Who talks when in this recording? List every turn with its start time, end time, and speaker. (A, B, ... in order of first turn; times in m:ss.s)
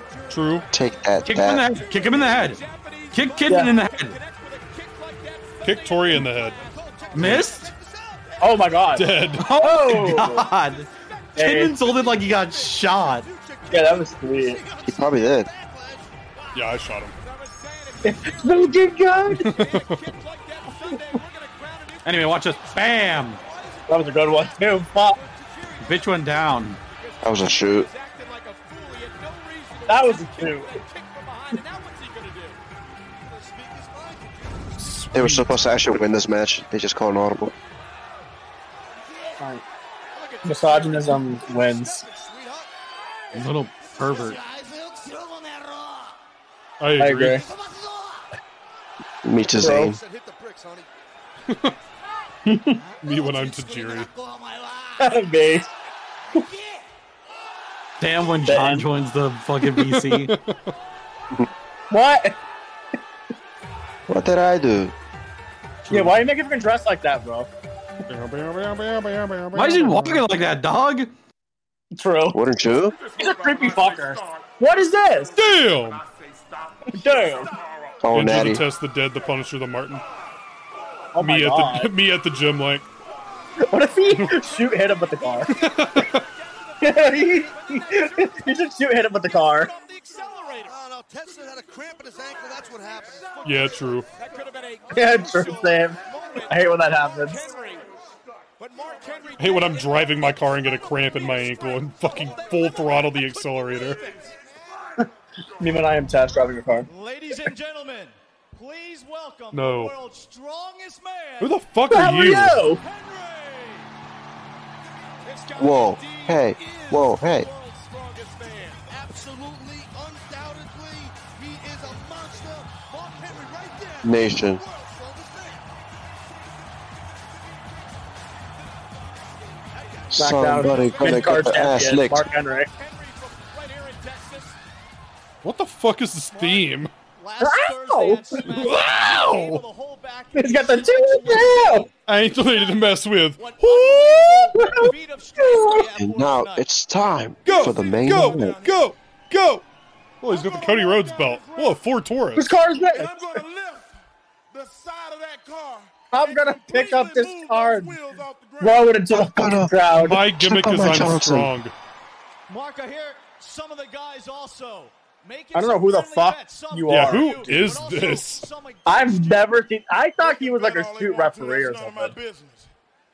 0:00.3-0:00.7 A
0:00.7-0:01.7 B
0:01.2-0:04.2 C
0:02.3-0:02.7 D
0:03.5-0:06.6 D
0:05.6-0:06.6 A
0:07.1-0:07.7 C
0:07.2-0:07.4 A
0:08.4-0:10.4 E
0:08.9-0:09.4 A
0:09.4-0:13.3 C
0:11.4-0:11.7 E
0:13.7-0:14.6 E
0:14.8-0:15.5 B
0:16.5-0:17.1 A
0:17.2-0:18.9 D
0:18.0-0:19.5 E
0:19.3-0:20.0 A
0:20.0-0:22.0 D
0:22.0-0:23.4 C
0:23.9-0:25.2 E
0:25.8-0:26.8 C
0:26.9-0:32.6 D
0:27.2-0:27.9 B
0:29.9-0:30.7 E
0:34.8-0:35.4 A
0:35.1-0:37.5 B
0:40.2-0:41.2 D
0:40.4-0:42.0 E
0:43.3-0:44.4 C
0:46.8-0:47.5 A
0:47.0-0:47.5 E
0:49.2-0:50.0 B
0:49.6-0:49.9 E
0:51.5-0:51.8 A
0:52.4-0:52.8 E
0:53.0-0:54.1 A
0:55.0-0:55.7 E
0:58.0-1:00.3 C
0:58.4-0:58.8 E
0:59.6-1:00.7 A
1:01.9-1:02.4 E
1:04.1-1:04.9 B
1:05.9-1:07.5 E
1:08.1-1:10.2 A
1:09.5-1:11.1 C
1:11.9-1:12.4 E
1:12.3-1:13.0 B
1:13.2-1:15.3 E
1:15.4-1:16.0 A
1:16.9-1:17.5 E
1:18.0-1:18.6 B
1:18.1-1:20.0 A
1:21.1-1:21.9 E
1:21.2-1:22.9 A
1:23.6-1:25.5 E
1:24.1-1:24.5 A
1:25.5-1:26.2 A
1:25.6-1:28.5 D
1:26.8-1:29.7 E
1:29.4-1:30.8 D
1:33.4-1:34.1 A
1:33.6-1:37.8 D
1:34.9-1:37.4 E
1:38.6-1:40.1 D
1:39.4-1:44.0 A
1:42.7-1:43.2 D
1:44.0-1:44.3 D
1:45.6-1:46.9 E
1:46.9-1:51.5 D
1:49.5-1:49.9 A
1:51.4-1:52.6 A
1:51.9-1:52.8 E
1:52.8-1:53.9 D
1:55.2-1:58.9 D
1:55.6-1:57.5 B
2:04.0-2:04.6 B
2:10.1-2:12.2 B
2:10.2-2:12.7 E
2:12.7-2:14.6 D
2:15.4-2:16.9 A
2:17.2-2:26.6 D
2:17.4-2:18.4 E
2:18.6-2:19.5 A
2:20.3-2:21.9 E
2:22.0-2:24.4 A
2:24.5-2:25.7 E
2:26.0-2:28.6 B
2:27.4-2:29.6 A
2:30.2-2:32.5 A
2:30.3-2:31.7 F
2:32.4-2:33.4 E
2:33.0-2:34.0 F
2:34.5-2:38.9 F
2:36.1-2:38.0 E
2:38.6-2:40.2 E
2:39.1-2:41.5 B
2:39.9-2:41.7 A
2:42.5-2:49.2 D
2:45.5-2:47.3 E
2:46.9-2:48.4 A
2:48.8-2:52.2 E
2:50.2-2:52.7 F